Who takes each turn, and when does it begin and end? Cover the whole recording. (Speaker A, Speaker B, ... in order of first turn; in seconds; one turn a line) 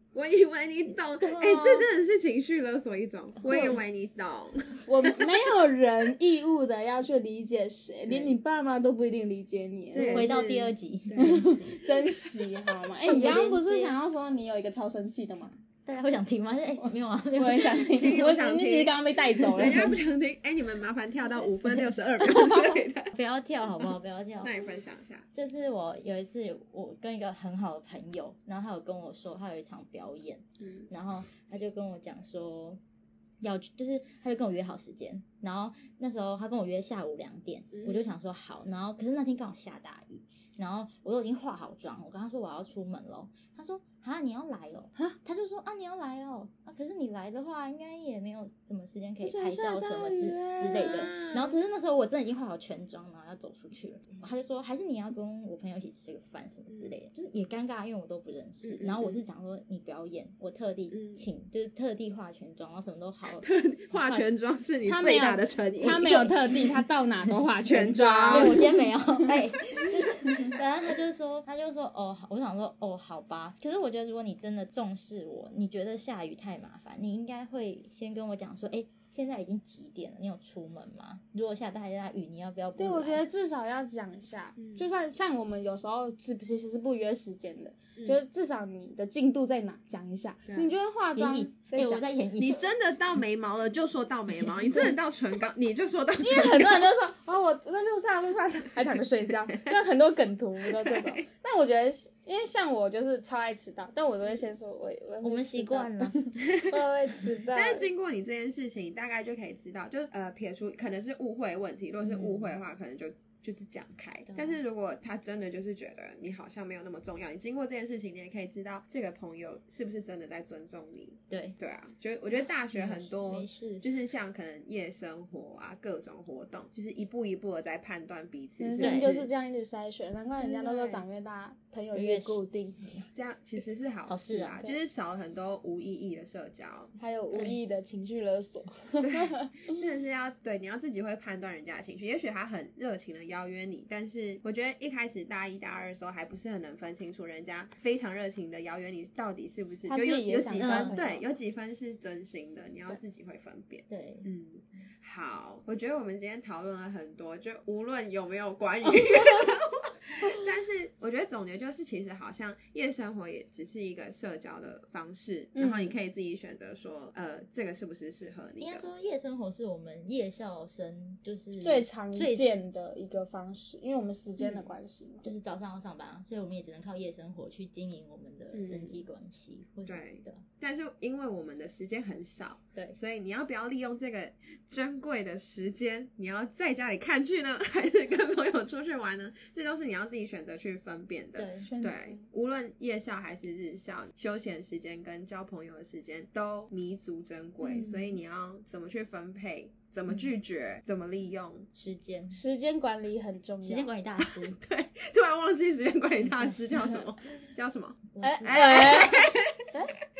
Speaker A: 0.1-5.3
Speaker B: 1.1-1.9
Speaker C: 3.4-3.8
Speaker C: 4.8-10.3
Speaker A: 8.1-8.3
Speaker A: 9.9-11.7
Speaker B: 9.9-11.7
Speaker C: 11.2-15.6
Speaker B: 13.0-14.0
Speaker B: 15.8-18.1
Speaker C: 16.8-19.9
Speaker A: 17.9-18.9
Speaker A: 19.5-23.1
Speaker C: 22.2-22.8
Speaker B: 23.1-24.5
Speaker A: 24.4-25.2
Speaker B: 25.3-32.8
Speaker A: 30.6-30.9
Speaker B: 33.4-64.3
Speaker A: 37.7-38.0
Speaker C: 49.2-51.0
Speaker A: 51.2-51.5
Speaker A: 58.6-59.2
Speaker A: 60.9-61.2
Speaker A: 63.4-66.4
Speaker C: 64.8-68.7
Speaker A: 67.6-68.7
Speaker B: 68.3-83.2
Speaker C: 82.8-92.0
Speaker A: 84.6-84.8
Speaker A: 90.5-90.7
Speaker B: 91.2-92.6
Speaker A: 92.4-96.9
Speaker C: 96.2-107.9
Speaker A: 100.8-101.2
Speaker B: 105.2-106.4
Speaker A: 106.4-106.7
Speaker A: 107.5-129.3
Speaker B: 112.0-112.5
Speaker B: 114.3-114.6
Speaker B: 121.3-121.6
Speaker B: 122.7-123.8
Speaker C: 128.6-133.1
Speaker B: 128.8-129.1
Speaker B: 130.4-131.0
Speaker B: 131.9-132.4
Speaker A: 133.1-136.9
Speaker B: 134.1-134.6
Speaker C: 137.0-139.6
Speaker B: 137.3-137.6
Speaker A: 139.0-168.9
Speaker C: 149.9-151.2
Speaker B: 150.6-151.0
Speaker B: 153.9-154.3
Speaker C: 165.6-165.9
Speaker B: 168.6-172.6
Speaker C: 171.6-175.2
Speaker B: 175.2-180.4
Speaker A: 178.5-179.0
Speaker A: 179.8-201.7
Speaker B: 191.4-191.7
Speaker C: 191.6-192.2
Speaker C: 197.6-198.2
Speaker B: 201.7-202.4
Speaker C: 202.3-203.9
Speaker B: 203.6-204.6
Speaker A: 204.2-209.6
Speaker B: 206.2-206.9
Speaker B: 208.1-209.1
Speaker C: 208.2-209.9